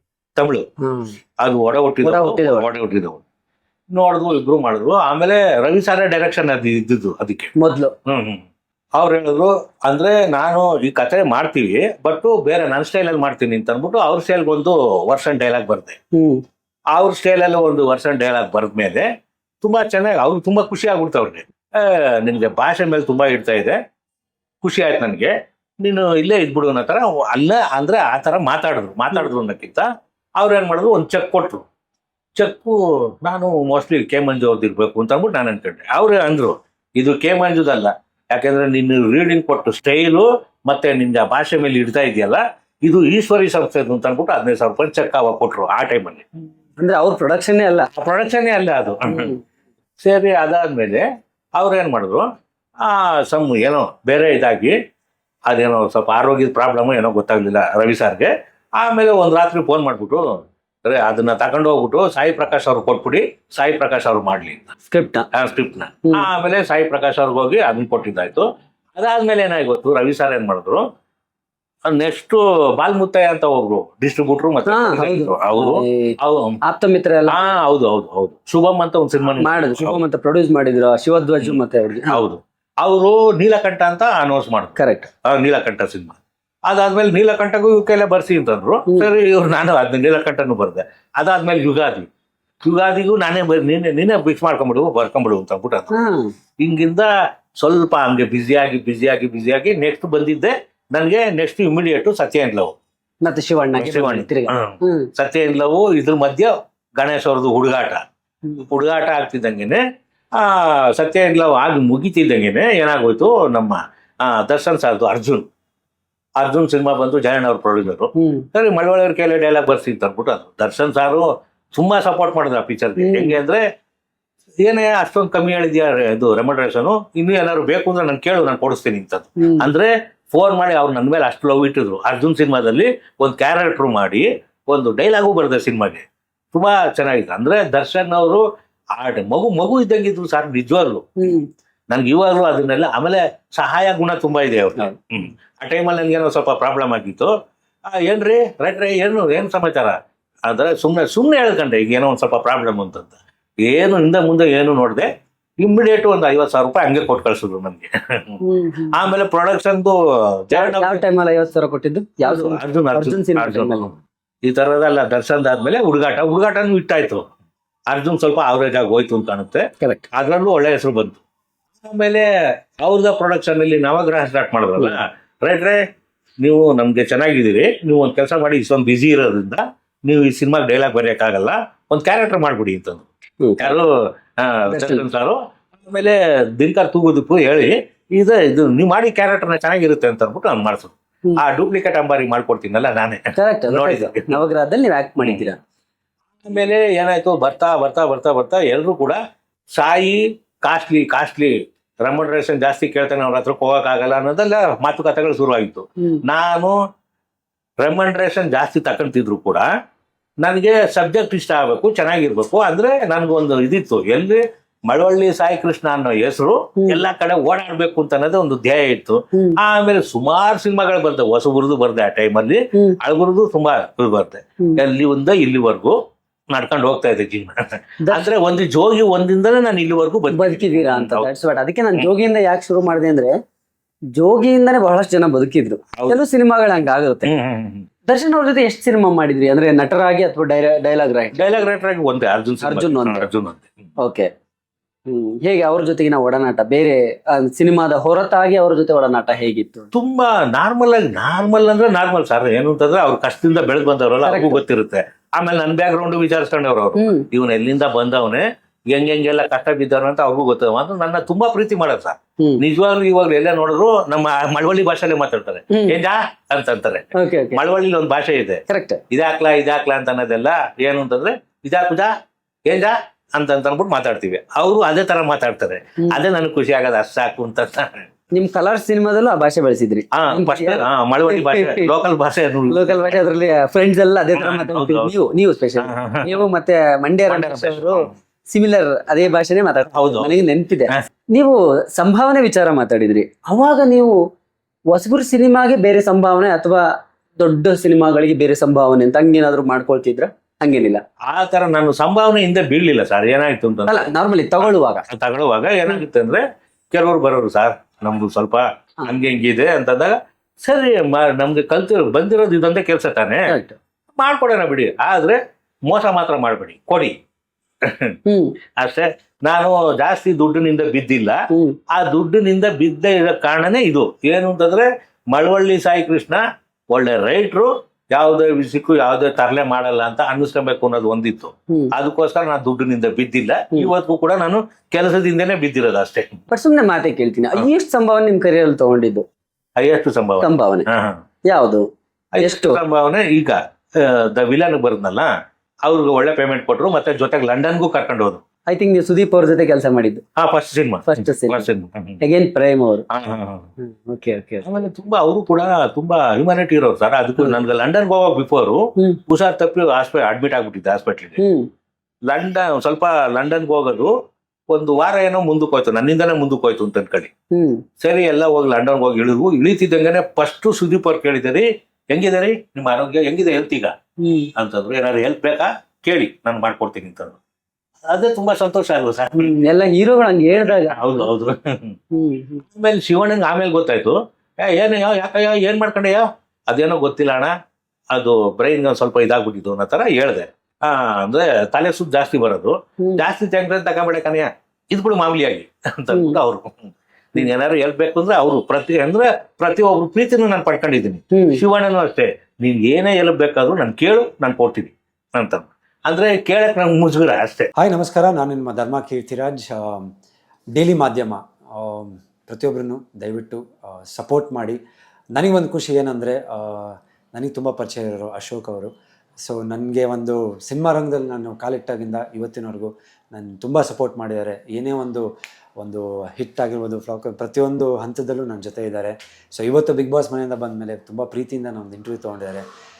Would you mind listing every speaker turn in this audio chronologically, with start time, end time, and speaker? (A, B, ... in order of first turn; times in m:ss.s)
0:00.4-0:00.6 A
0:00.8-0:01.1 B
0:01.4-0:03.2 A
0:02.0-0:02.7 B
0:03.9-0:07.5 A
0:07.6-0:07.9 B
0:08.1-0:08.4 A
0:09.0-0:16.0 A
0:16.1-0:16.4 B
0:16.9-0:19.0 A
0:19.6-0:23.8 A
0:24.6-0:25.3 A
0:25.8-0:29.8 A
0:30.4-0:31.6 A
0:32.4-0:46.2 A
0:46.8-0:47.9 B
0:47.9-0:49.3 A
0:49.1-0:49.4 B
0:50.0-0:51.0 A
0:51.6-0:52.2 A
0:52.8-0:54.8 A
0:55.5-1:00.2 A
1:00.9-1:04.7 A
1:04.9-1:05.2 B
1:05.3-1:10.8 A
1:11.9-1:16.6 A
1:14.7-1:16.2 B
1:16.7-1:17.4 B
1:17.3-1:20.0 A
1:19.4-1:22.2 B
1:22.1-1:32.1 A
1:24.8-1:25.1 B
1:32.6-1:35.9 A
1:36.0-1:36.3 B
1:36.6-1:37.1 A
1:37.6-1:42.7 A
1:43.2-1:45.1 B
1:43.8-1:48.0 A
1:48.7-1:49.8 A
1:50.4-1:55.4 A
1:56.4-2:03.6 A
1:58.2-1:58.5 B
2:03.0-2:03.4 B
2:04.6-2:18.4 A
2:09.4-2:09.7 B
2:19.0-2:21.0 A
2:21.2-2:21.5 B
2:21.9-2:27.3 A
2:28.0-2:30.0 A
2:30.5-2:35.1 A
2:35.6-2:38.4 A
2:38.4-2:39.0 B
2:38.9-2:41.0 A
2:40.5-2:43.9 B
2:42.2-2:47.2 A
2:47.9-2:51.2 A
2:51.8-2:52.3 A
2:52.8-2:55.8 A
2:56.4-3:03.1 A
3:03.4-3:03.7 B
3:03.6-3:14.3 A
3:04.7-3:05.0 B
3:13.4-3:15.6 B
3:15.2-3:15.5 A
3:16.4-3:19.2 A
3:19.8-3:21.5 A
3:22.0-3:26.8 A
3:27.8-3:29.7 A
3:30.4-3:46.0 A
3:46.5-3:51.3 A
3:48.0-3:48.3 B
3:50.3-3:53.4 B
3:54.2-3:57.3 B
3:57.2-3:57.9 A
3:58.1-4:01.4 B
4:01.3-4:03.8 A
4:02.6-4:03.3 B
4:04.0-4:04.3 B
4:05.1-4:09.9 B
4:09.9-4:32.1 A
4:14.2-4:14.6 B
4:17.0-4:17.2 B
4:27.2-4:27.6 B
4:28.7-4:29.0 B
4:32.7-4:38.1 A
4:38.4-4:41.9 B
4:40.1-4:43.2 A
4:42.7-4:54.2 B
4:44.4-4:45.1 A
4:45.8-4:46.4 A
4:47.3-4:48.1 A
4:49.9-4:50.3 A
4:54.9-4:56.8 B
4:57.4-5:01.0 B
5:01.3-5:13.5 A
5:03.9-5:05.0 B
5:13.5-5:13.8 B
5:14.2-5:17.1 A
5:17.8-5:18.1 A
5:18.3-5:18.5 B
5:18.8-5:21.4 A
5:21.9-5:26.4 A
5:26.9-5:36.4 A
5:36.5-5:39.2 B
5:39.8-5:41.2 A
5:40.4-5:40.9 B
5:41.5-5:41.8 B
5:42.4-5:45.3 A
5:42.4-5:42.8 B
5:45.8-5:48.4 A
5:48.7-5:50.2 B
5:50.4-5:52.2 A
5:51.1-5:51.7 B
5:52.2-5:53.0 B
5:53.1-5:53.7 A
5:53.8-5:54.6 B
5:54.6-6:01.4 A
6:01.4-6:01.7 B
6:02.3-6:04.1 A
6:04.7-6:07.3 A
6:07.5-6:07.8 B
6:08.0-6:13.9 A
6:14.2-6:14.5 B
6:14.6-6:17.4 A
6:18.1-6:19.5 A
6:19.4-6:21.3 B
6:20.6-6:22.0 A
6:22.1-6:22.6 B
6:22.7-6:27.5 A
6:28.1-6:47.7 A
6:36.1-6:36.4 B
6:41.3-6:41.6 B
6:47.8-6:50.1 C
6:50.7-6:54.8 C
6:55.4-6:58.9 C
6:59.5-7:05.2 C
7:05.8-7:12.6 C